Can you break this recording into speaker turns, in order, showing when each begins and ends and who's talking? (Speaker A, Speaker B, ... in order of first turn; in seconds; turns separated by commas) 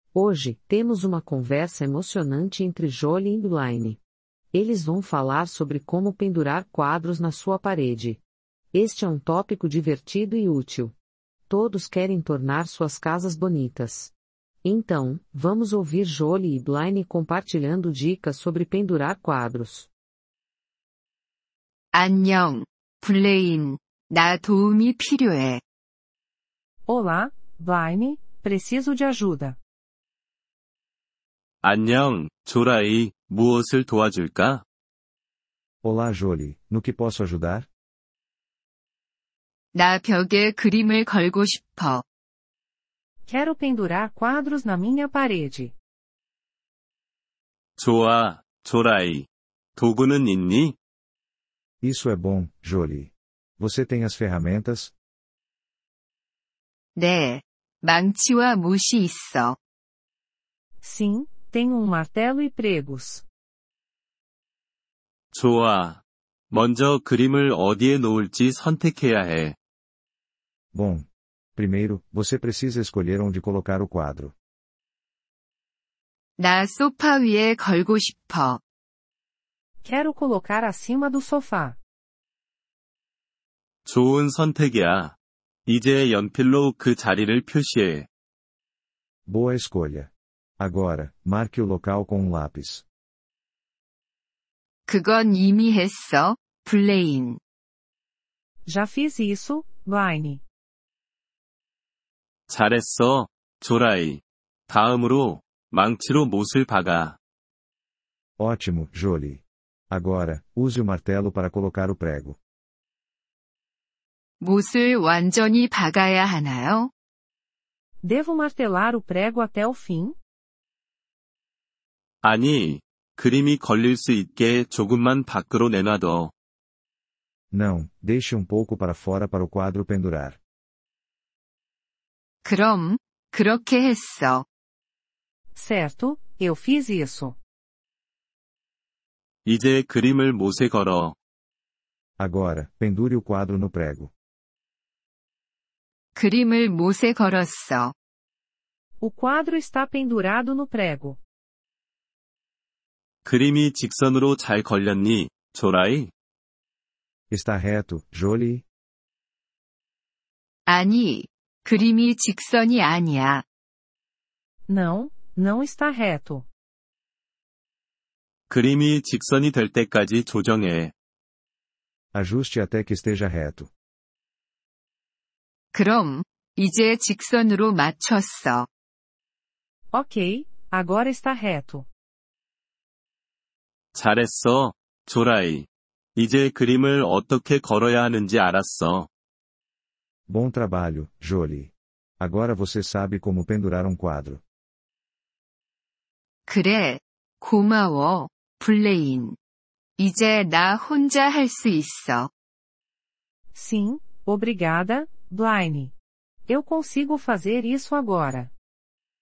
Speaker A: 0.1-4.0, Speaker A: 4.5-8.2, Speaker A: 8.7-10.9, Speaker A: 11.5-14.1, Speaker A: 14.6-19.9, Speaker B: 21.9-25.6, Speaker C: 26.9-29.6, Speaker D: 31.6-34.6, Speaker E: 35.8-37.7, Speaker B: 39.7-42.0, Speaker C: 43.3-45.7, Speaker D: 47.8-50.8, Speaker E: 51.8-54.9, Speaker B: 57.0-59.6, Speaker C: 60.8-63.2, Speaker D: 65.3-69.5, Speaker E: 70.7-74.3, Speaker B: 76.4-78.6, Speaker C: 79.8-81.8, Speaker D: 83.8-85.2, Speaker D: 85.7-88.1, Speaker E: 89.3-92.8, Speaker B: 94.9-97.4, Speaker C: 98.7-100.4, Speaker D: 102.5-107.2, Speaker E: 108.4-112.4, Speaker B: 114.4-116.9, Speaker C: 118.0-120.2, Speaker D: 122.2-126.3, Speaker E: 127.5-130.4, Speaker B: 132.4-134.4, Speaker C: 135.5-137.4, Speaker D: 139.4-141.2, Speaker E: 142.2-144.1, Speaker B: 146.2-147.9, Speaker C: 149.0-151.2, Speaker D: 153.2-156.1, Speaker E: 157.3-158.6, Speaker B: 160.7-163.4, Speaker C: 164.7-166.4, Speaker D: 168.5-170.9, Speaker E: 172.1-173.7, Speaker B: 175.7-178.7, Speaker C: 179.9-181.8, Speaker D: 183.9-189.1, Speaker E: 190.3-194.4, Speaker B: 196.5-199.3, Speaker B: 200.0-202.3, Speaker C: 203.5-205.9, Speaker C: 206.5-208.5